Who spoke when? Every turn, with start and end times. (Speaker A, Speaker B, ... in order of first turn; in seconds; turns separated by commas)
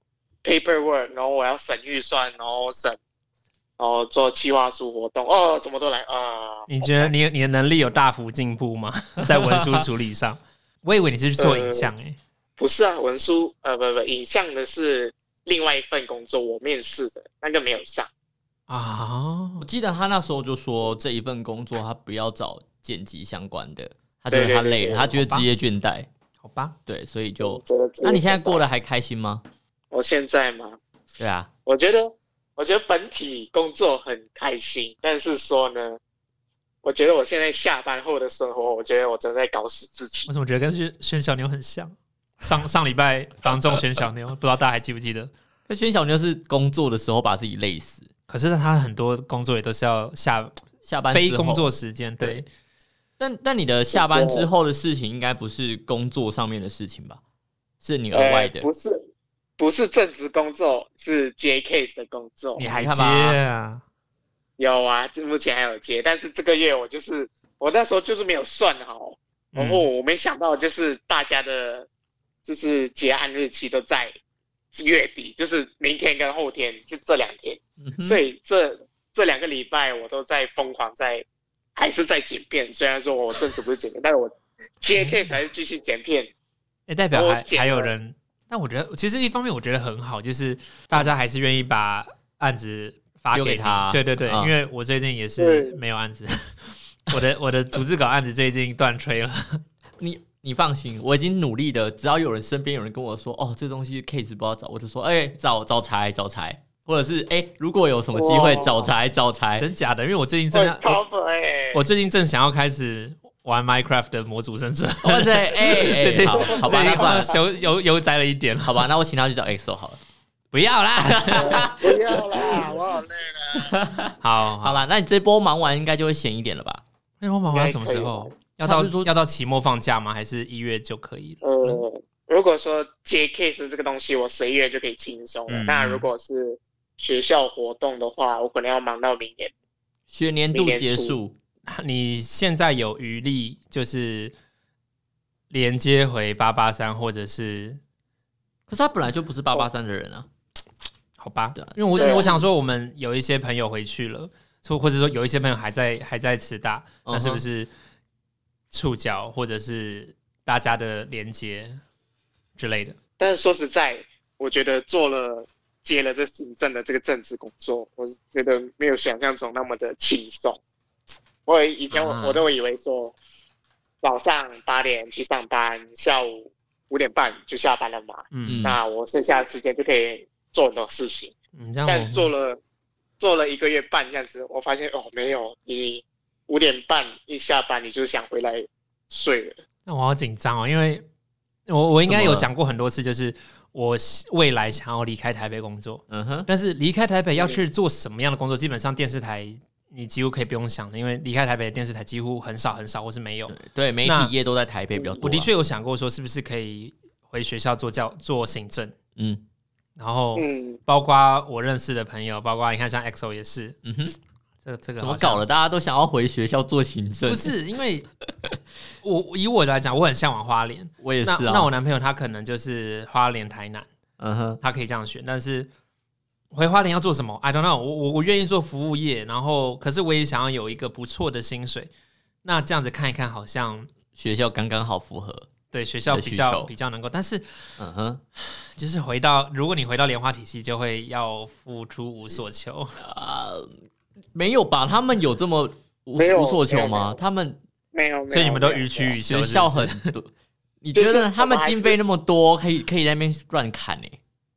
Speaker A: 0.4-3.0, Speaker A: 3.8-7.1, Speaker B: 6.7-12.2, Speaker C: 9.2-9.9, Speaker A: 11.4-11.9, Speaker A: 12.6-18.1, Speaker B: 18.7-19.6, Speaker C: 19.6-26.1, Speaker A: 24.3-25.2, Speaker B: 25.2-25.5, Speaker B: 26.4-26.8, Speaker C: 26.9-29.4, Speaker A: 27.4-28.6, Speaker A: 29.9-30.8, Speaker C: 31.2-31.5, Speaker A: 31.7-36.0, Speaker A: 36.8-40.3, Speaker B: 40.3-45.3, Speaker C: 45.7-48.1, Speaker B: 48.3-50.5, Speaker C: 50.8-51.7, Speaker B: 51.1-52.5, Speaker C: 53.2-57.2, Speaker A: 53.9-54.5, Speaker C: 57.8-58.7, Speaker A: 58.1-59.1, Speaker A: 59.6-62.7, Speaker B: 62.6-63.8, Speaker C: 62.7-63.4, Speaker A: 64.6-71.9, Speaker B: 69.5-69.9, Speaker A: 72.4-74.1, Speaker A: 74.7-81.2, Speaker C: 77.8-78.2, Speaker A: 81.8-86.3, Speaker B: 85.0-85.3, Speaker B: 86.9-96.4, Speaker A: 87.1-87.9, Speaker C: 93.3-94.5, Speaker A: 95.4-95.8, Speaker B: 97.1-99.6, Speaker C: 100.0-109.7, Speaker A: 108.1-108.9, Speaker B: 109.6-111.0, Speaker A: 110.5-111.8, Speaker B: 111.7-118.9, Speaker C: 115.0-117.4, Speaker A: 116.5-117.3, Speaker C: 118.7-120.0, Speaker B: 120.5-122.0, Speaker C: 121.0-121.7, Speaker A: 121.3-123.8, Speaker C: 123.5-126.8, Speaker B: 124.2-124.8, Speaker B: 127.2-131.8, Speaker A: 127.5-128.3, Speaker C: 128.6-129.1, Speaker A: 131.4-139.5, Speaker B: 135.5-136.1, Speaker C: 140.1-141.3, Speaker A: 140.5-141.2, Speaker B: 141.7-144.3, Speaker B: 145.5-147.8, Speaker C: 148.7-150.3, Speaker B: 151.2-157.7, Speaker C: 151.6-152.3, Speaker A: 152.0-152.4, Speaker C: 157.1-157.4, Speaker B: 158.7-161.8, Speaker B: 162.6-163.0, Speaker A: 163.2-170.6, Speaker A: 171.5-173.2, Speaker B: 171.9-172.4, Speaker A: 174.0-181.3, Speaker B: 178.3-178.6, Speaker C: 178.5-178.8, Speaker B: 181.6-182.3, Speaker A: 181.9-182.6, Speaker A: 183.2-189.6, Speaker B: 189.9-191.1, Speaker B: 191.7-204.3, Speaker C: 192.1-192.5, Speaker C: 196.1-196.5, Speaker C: 203.5-205.5, Speaker B: 205.2-208.9, Speaker C: 209.2-209.4, Speaker B: 210.0-213.8, Speaker A: 210.4-210.8, Speaker C: 213.8-214.1, Speaker B: 214.6-215.4, Speaker C: 215.0-217.6, Speaker B: 217.2-218.1, Speaker B: 219.0-223.9, Speaker C: 221.0-221.7, Speaker C: 224.2-224.6, Speaker B: 224.6-225.7, Speaker B: 226.5-231.9, Speaker B: 232.4-233.9, Speaker C: 234.1-235.5, Speaker B: 235.7-237.4, Speaker C: 236.1-236.7, Speaker C: 237.8-238.2, Speaker B: 238.5-243.0, Speaker C: 243.0-243.8, Speaker C: 244.3-247.6, Speaker A: 246.2-247.2, Speaker A: 247.9-249.2, Speaker B: 248.3-250.1, Speaker C: 249.2-250.3, Speaker C: 250.8-254.2, Speaker A: 250.9-252.0